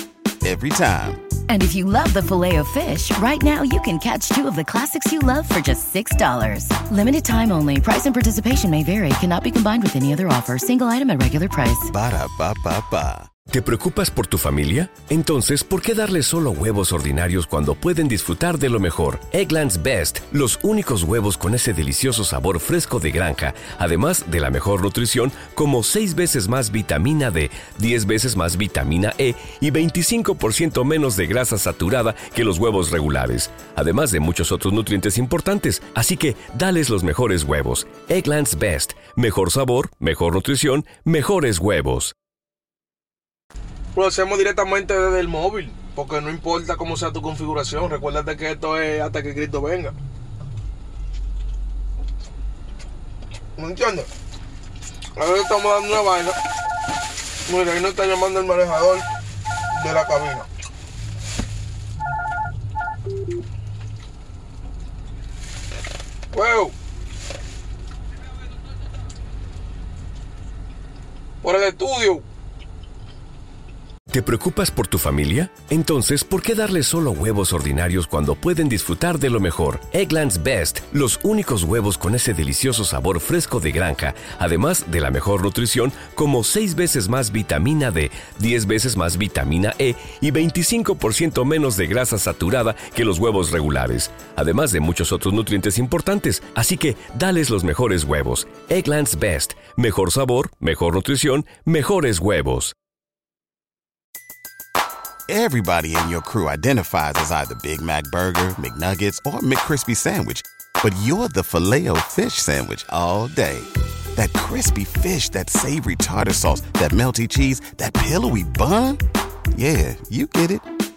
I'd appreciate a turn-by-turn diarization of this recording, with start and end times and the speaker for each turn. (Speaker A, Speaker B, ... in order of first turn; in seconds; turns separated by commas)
Speaker A: 0.4-1.2, Speaker B: 1.5-11.9, Speaker A: 11.9-13.3, Speaker C: 13.5-42.1, Speaker D: 43.9-49.9, Speaker D: 53.6-54.1, Speaker D: 55.2-56.4, Speaker D: 57.5-59.0, Speaker D: 59.7-60.5, Speaker D: 66.3-66.7, Speaker D: 71.4-72.2, Speaker C: 74.1-102.7, Speaker A: 105.3-119.0, Speaker A: 119.5-120.7